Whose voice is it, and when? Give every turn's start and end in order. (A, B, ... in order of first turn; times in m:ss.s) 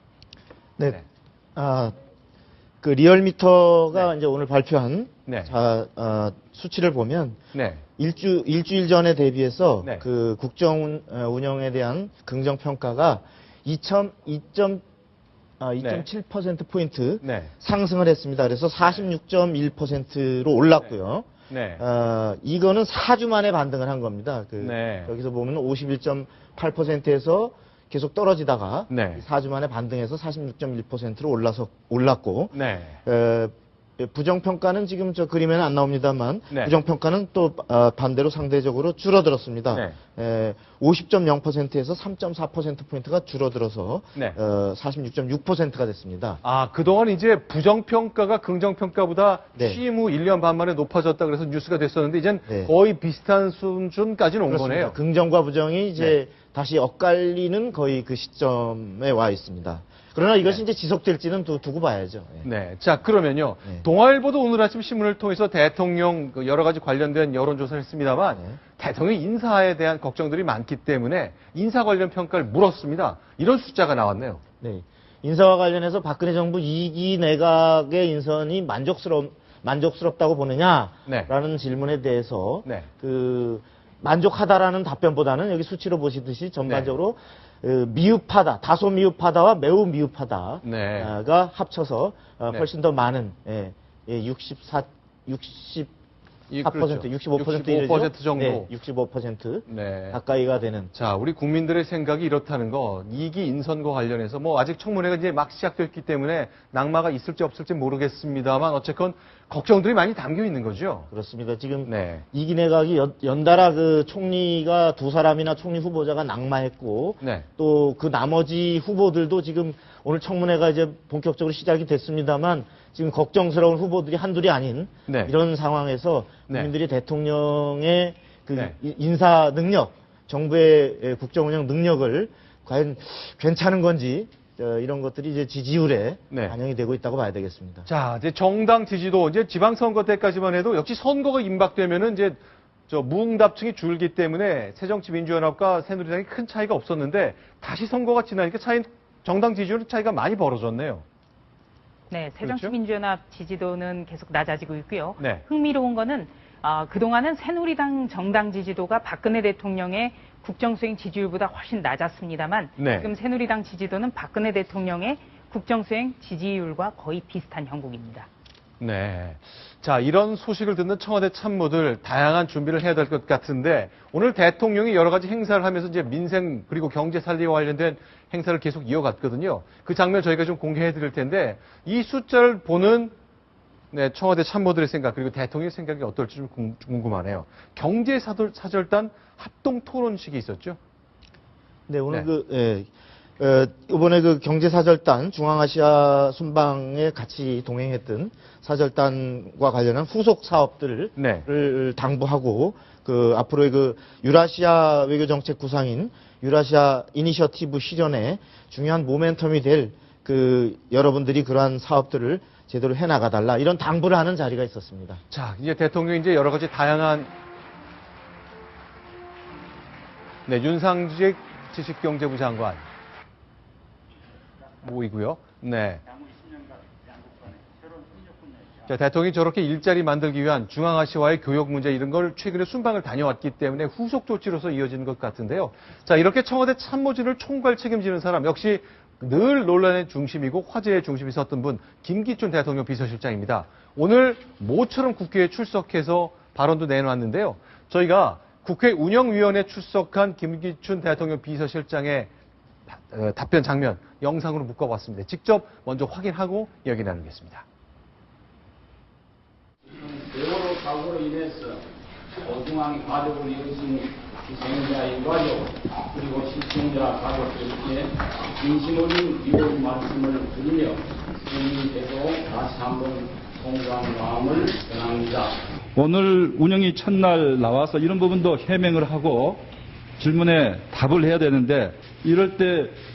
0:01.6-0:02.0 A
0:02.8-0:07.4 A
0:05.3-0:05.5 B
0:07.5-0:07.8 B
0:08.0-0:14.8 A
0:15.6-0:46.4 A
0:15.8-0:16.1 B
0:17.2-0:17.5 B
0:21.5-0:21.8 B
0:24.6-0:25.1 B
0:28.9-0:29.2 B
0:32.5-0:33.0 B
0:36.5-0:36.8 B
0:46.4-0:55.0 B
0:54.5-1:02.5 A
1:02.4-1:14.4 B
1:14.6-1:35.9 A
1:21.1-1:21.3 B
1:26.6-1:27.0 B
1:30.6-1:31.2 B
1:36.5-1:38.7 B
1:36.6-1:40.9 A
1:39.7-1:40.2 B
1:40.9-1:51.1 B
1:51.1-2:17.9 A
1:51.8-1:52.2 B
1:57.2-1:57.5 B
2:05.1-2:05.3 B
2:06.5-2:06.7 B
2:16.3-2:16.6 B
2:17.9-2:31.0 B
2:32.1-2:48.3 C
2:32.4-2:32.7 B
2:35.2-2:35.4 B
2:42.8-2:43.1 B
2:48.8-3:03.1 B
3:03.9-3:10.8 B
3:11.9-3:35.2 A
3:21.2-3:21.5 B
3:35.3-3:37.3 B
3:40.5-3:42.8 B
3:44.8-3:46.0 B
3:48.9-4:12.3 B
4:12.9-4:17.6 B
4:19.9-4:21.8 D
4:22.4-4:35.6 D
4:36.0-4:43.0 E